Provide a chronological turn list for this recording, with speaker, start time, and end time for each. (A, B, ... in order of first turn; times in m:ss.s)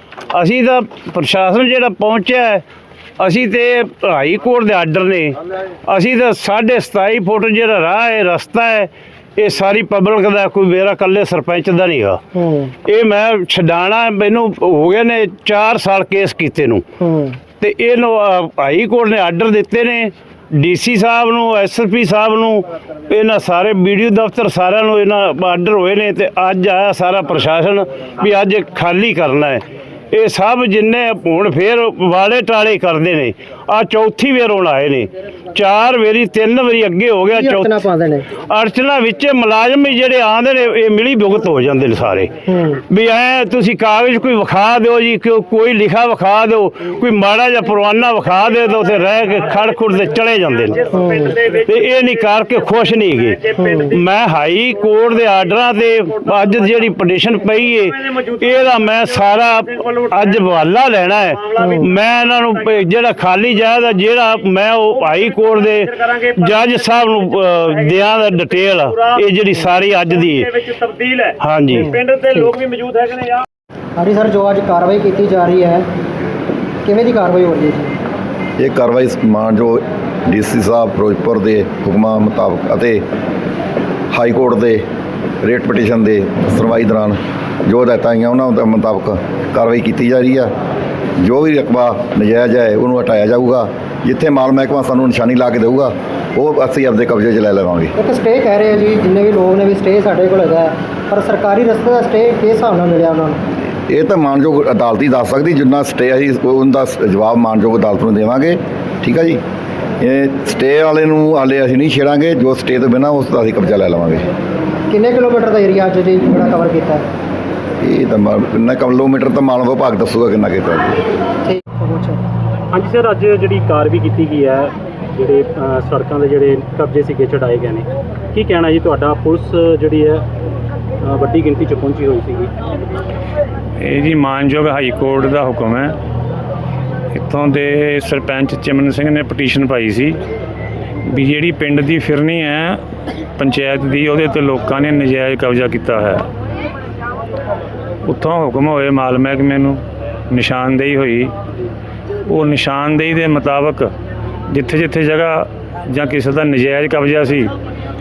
0:00.3-0:02.6 A
0:03.2-0:12.2 A
0:12.3-0:12.7 B
0:12.8-0:16.8 A
0:17.0-0:17.4 B
0:17.6-0:37.7 A
0:37.3-0:38.3 B
0:38.4-0:42.3 A
0:42.5-0:42.8 B
0:42.9-0:50.9 A
0:50.9-0:51.5 B
0:51.5-1:10.7 A
0:53.5-0:53.9 B
1:01.6-1:01.9 B
1:10.7-1:11.3 C
1:11.4-1:11.9 A
1:11.7-1:12.6 B
1:12.0-1:13.4 C
1:14.0-1:15.9 B
1:16.8-1:18.0 B
1:18.6-1:23.0 D
1:24.1-1:24.8 D
1:25.4-1:30.5 D
1:31.2-1:37.9 D
1:38.0-1:43.4 B
1:43.9-1:49.4 D
1:50.0-1:54.3 D
1:54.9-1:57.0 B
1:57.8-2:01.0 D
2:01.4-2:02.2 B
2:02.7-2:10.2 C
2:11.0-2:12.5 C
2:13.8-2:15.9 E
2:17.1-2:20.2 E
2:21.0-2:22.8 E
2:23.4-2:26.2 E
2:28.0-2:31.3 E
2:32.3-2:33.9 E
2:34.5-2:37.5 E